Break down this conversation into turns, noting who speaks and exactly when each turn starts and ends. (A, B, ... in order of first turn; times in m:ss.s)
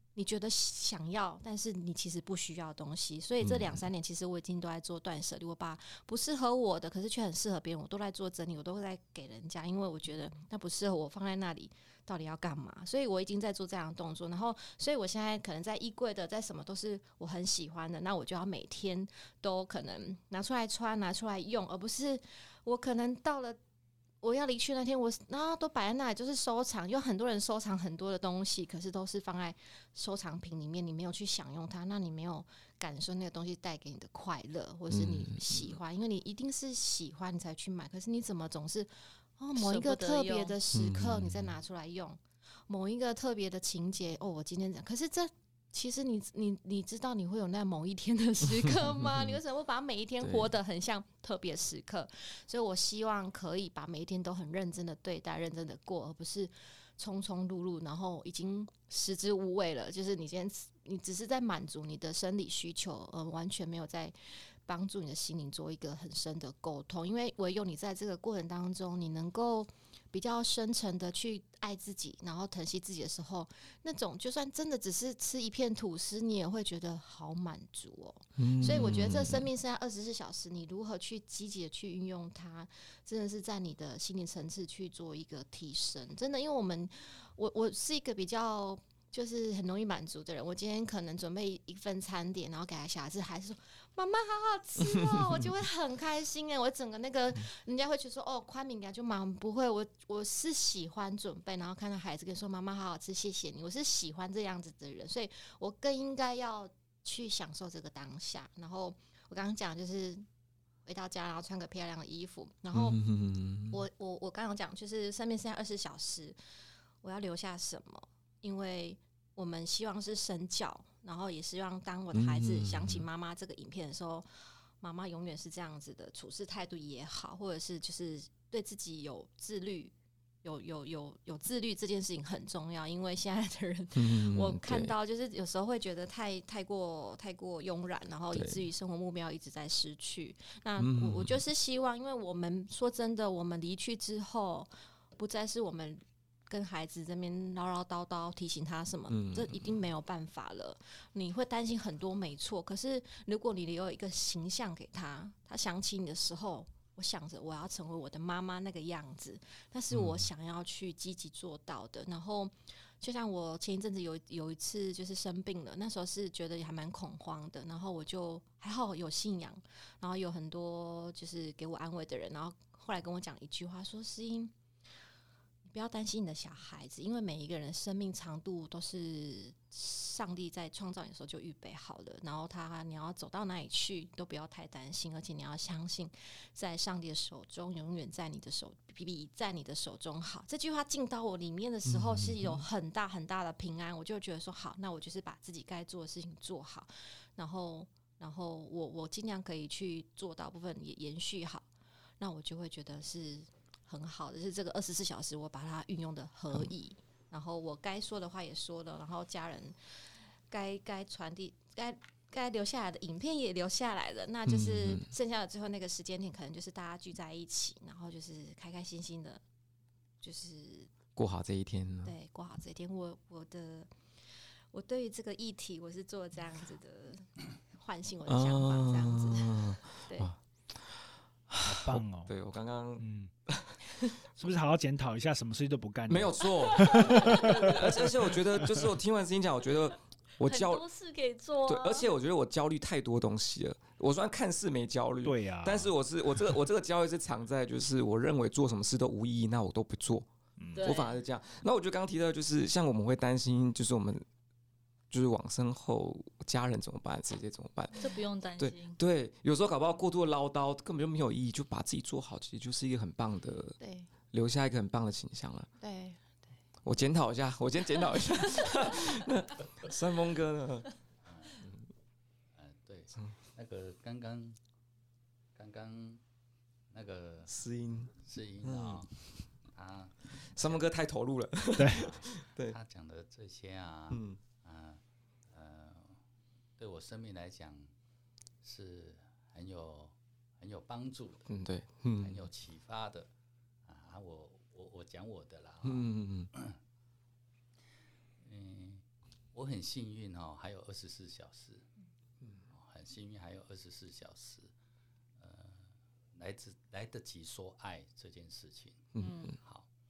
0:00.1-0:23.6 A
0:03.4-0:03.8 B
0:24.2-1:04.1 A
0:34.9-0:35.7 B
0:39.6-0:40.6 C
0:40.7-0:41.5 B
0:50.2-0:50.5 B
1:04.6-1:50.2 A
1:18.4-1:19.4 B
1:35.1-1:35.5 B
1:50.9-1:53.0 A
1:52.7-1:53.8 B
1:53.7-1:56.4 A
1:57.0-2:04.3 A
2:02.1-2:03.0 B
2:04.8-2:09.9 A
2:10.4-2:54.5 A
2:13.9-2:14.9 B
2:18.3-2:18.6 B
2:20.8-2:21.4 B
2:29.1-2:29.8 B
2:55.6-3:21.7 A
3:11.9-3:12.6 B
3:22.2-3:29.8 A
3:30.5-3:39.4 A
3:34.4-3:35.1 B
3:40.2-3:40.9 A
3:41.2-3:42.1 B
3:42.0-3:43.9 A
3:44.7-3:50.3 A
3:48.3-3:53.9 B
3:51.6-3:52.3 D
3:53.0-3:53.3 D
3:54.4-3:58.9 D
3:56.1-4:00.8 B
3:56.7-3:57.8 C
4:00.4-4:02.1 C
4:01.7-4:14.2 B
4:05.2-4:06.5 D
4:10.6-4:10.9 D
4:10.7-4:11.2 C
4:15.1-4:23.8 B
4:17.9-4:19.0 C
4:23.8-4:24.1 A
4:24.3-4:25.7 B
4:25.8-4:26.5 A
4:26.8-4:30.9 B
4:31.2-4:31.6 E
4:32.6-4:34.6 E
4:35.6-4:36.2 E
4:36.9-4:37.5 E
4:37.5-4:39.1 B
4:38.2-4:39.2 E
4:39.7-4:40.8 E
4:40.5-4:42.8 B
4:41.8-4:42.0 D
4:41.8-4:46.2 E
4:44.1-4:44.4 B
4:46.8-4:47.9 E
4:48.6-4:51.5 E
4:51.5-4:52.5 B
4:52.2-4:53.3 E
4:53.8-4:56.8 E
4:55.8-4:56.5 B
4:58.4-5:01.9 E
5:02.7-5:04.7 E
5:05.4-5:05.8 E
5:06.3-5:09.9 E
5:09.2-5:09.5 B
5:09.2-5:09.5 C